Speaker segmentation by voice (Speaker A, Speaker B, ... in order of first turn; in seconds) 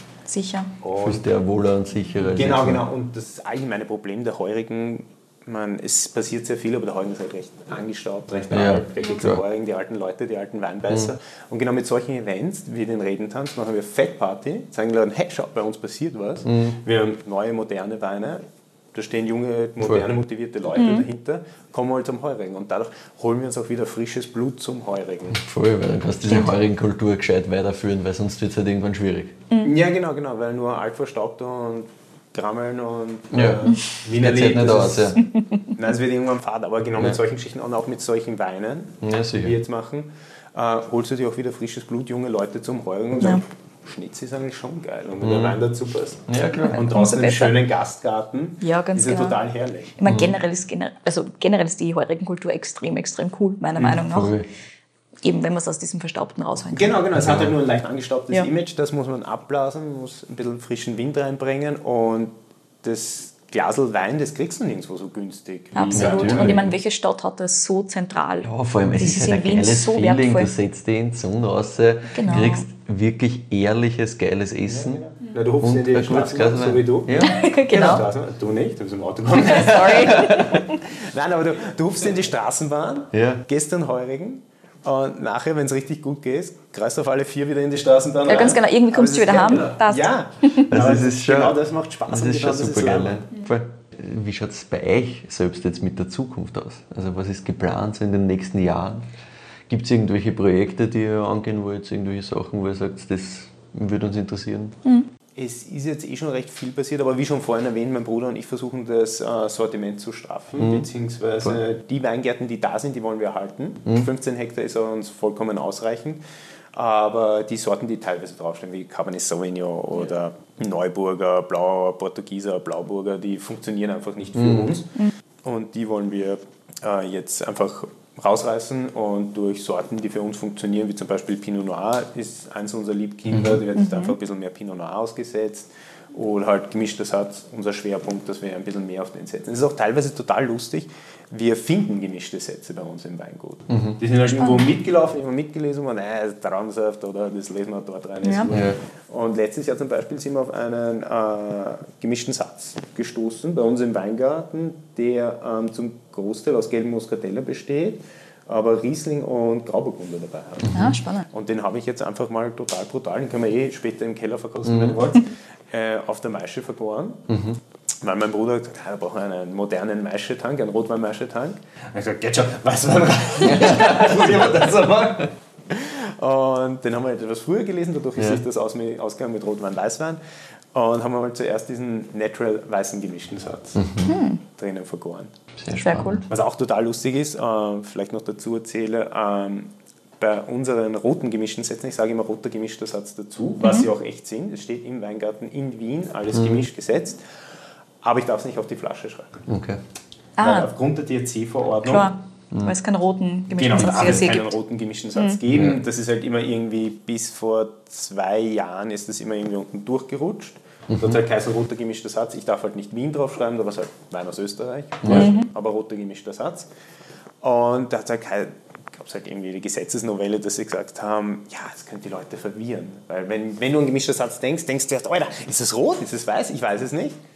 Speaker A: 0.2-0.7, 20.8-21.0, 35.3-35.7, 46.7-47.6, 48.6-49.4, 50.0-54.3, 55.2-57.0, 65.7-70.5, 72.1-72.7, 77.2-78.0, 79.4-80.8, 88.3-90.7, 133.7-134.1, 144.4-144.7, 148.2-148.5, 160.7-161.3, 184.1-184.4, 185.8-186.2, 200.4-200.7, 201.8-204.5, 215.1-215.5
Speaker B: 0.8-1.2, 2.3-25.4, 29.6-35.2, 35.7-49.9, 53.8-54.0, 56.7-62.3, 62.8-66.7, 74.7-93.3, 105.3-116.2, 116.7-167.3, 168.0-180.2, 180.7-183.8, 184.5-185.3, 186.3-197.2, 198.0-199.4, 200.4-202.1, 203.5-216.7, 217.4-227.2
Speaker C: 1.0-2.8, 8.5-9.4, 16.5-16.8, 25.3-29.4, 33.3-35.2, 39.0-39.5, 45.2-45.6, 46.3-46.8, 50.0-50.3, 54.0-54.5, 57.1-57.5, 65.9-66.7, 68.4-75.0, 75.6-77.4, 79.9-80.5, 83.1-83.4, 90.7-99.0, 99.7-104.8, 110.6-110.9, 124.3-124.7, 133.3-133.6, 143.7-144.0, 148.5-148.8, 160.6-160.9, 164.6-165.0, 167.3-167.6, 173.4-175.2, 178.2-178.4, 183.8-184.1, 185.6-186.2, 196.3-196.7, 199.5-199.8, 205.5-205.8, 210.9-211.2, 215.0-215.3